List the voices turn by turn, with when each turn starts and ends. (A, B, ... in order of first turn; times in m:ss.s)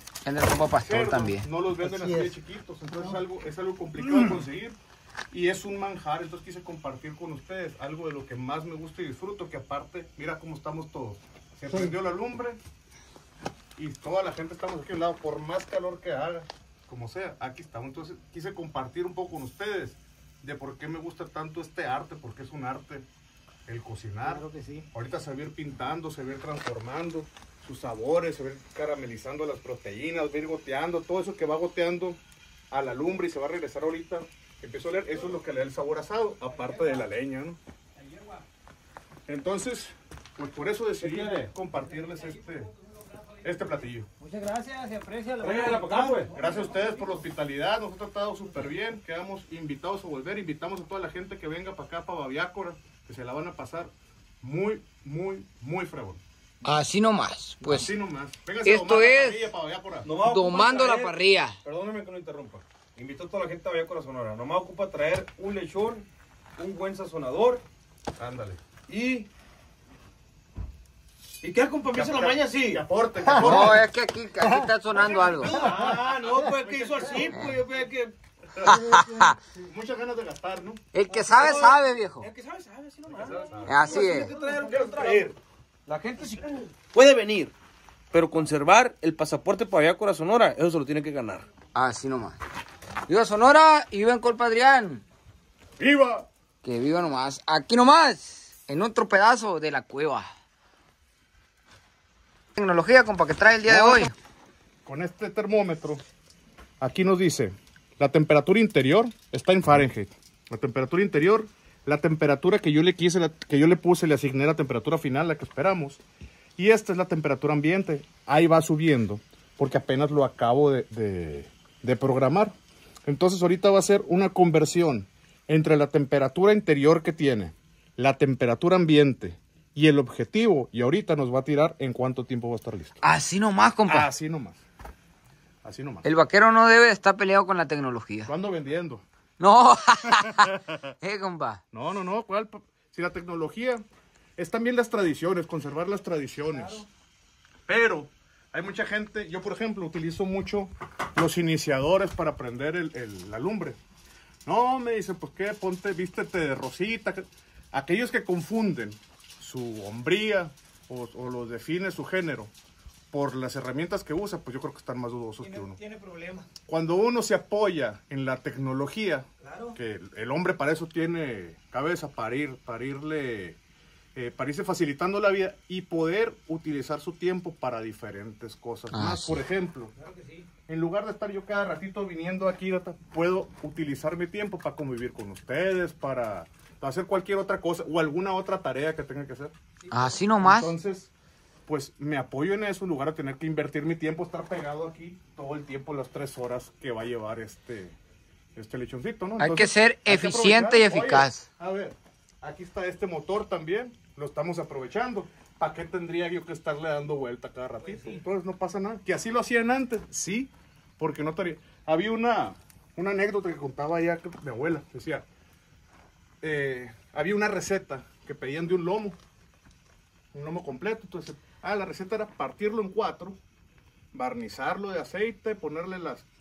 0:00.2-0:01.5 A
0:00.8-0:04.8 B
0:01.8-0:02.3 C
0:02.9-0:03.2 C
0:05.3-0:12.6 B
0:13.8-0:23.1 B
0:23.7-0:32.2 B
0:24.2-0:24.9 C
0:32.7-0:37.6 B
0:36.5-0:37.1 C
0:38.0-0:38.4 C
0:39.3-0:42.7 B
0:41.0-0:41.4 D
0:43.4-0:44.1 B
0:44.2-0:47.2 C
0:45.4-0:46.3 D
0:46.3-0:56.2 B
0:56.6-0:57.9 A
0:57.6-1:00.1 B
0:58.6-0:59.5 A
1:00.0-1:06.1 D
1:00.2-1:01.6 A
1:06.6-1:07.6 D
1:08.2-1:08.6 B
1:08.9-1:09.3 D
1:11.4-1:12.8 D
1:11.9-1:13.8 B
1:13.3-1:13.8 C
1:13.4-1:15.6 A
1:14.4-1:14.7 C
1:15.3-1:18.1 D
1:15.3-1:17.3 C
1:15.6-1:17.5 B
1:18.6-1:19.4 C
1:18.6-1:19.4 A
1:19.6-1:20.8 B
1:20.9-1:22.3 A
1:21.2-1:25.3 D
1:23.1-1:25.4 B
1:23.6-1:24.3 A
1:23.7-1:24.8 C
1:25.9-1:27.5 D
1:28.1-1:31.5 D
1:31.8-1:32.4 A
1:33.1-1:35.0 A
1:35.8-1:36.3 B
1:36.6-1:40.3 A
1:42.6-1:44.1 A
1:43.7-1:44.1 B
1:44.8-1:46.0 B
1:46.8-1:56.0 B
1:56.6-2:02.6 B
2:03.1-2:13.0 B
2:13.0-2:14.1 A
2:13.9-2:14.6 B
2:15.6-2:16.0 B
2:16.0-2:18.3 A
2:18.3-2:19.0 B
2:19.4-2:21.6 A
2:20.1-2:20.9 B
2:21.7-2:23.8 B
2:24.4-2:26.9 B
2:27.7-2:33.8 B
2:34.4-2:42.5 B
2:43.1-2:45.8 B
2:45.4-2:46.5 C
2:46.7-2:53.6 B
2:49.4-2:49.8 C
2:54.2-2:59.9 B
2:58.9-2:59.4 A
3:00.1-3:00.4 C
3:00.7-3:09.5 B
3:09.9-3:10.7 A
3:10.4-3:11.1 B
3:11.7-3:18.0 B
3:18.6-3:35.3 B
3:19.4-3:21.5 A
3:36.4-3:39.2 B
3:40.3-3:43.4 B
3:44.1-3:46.3 B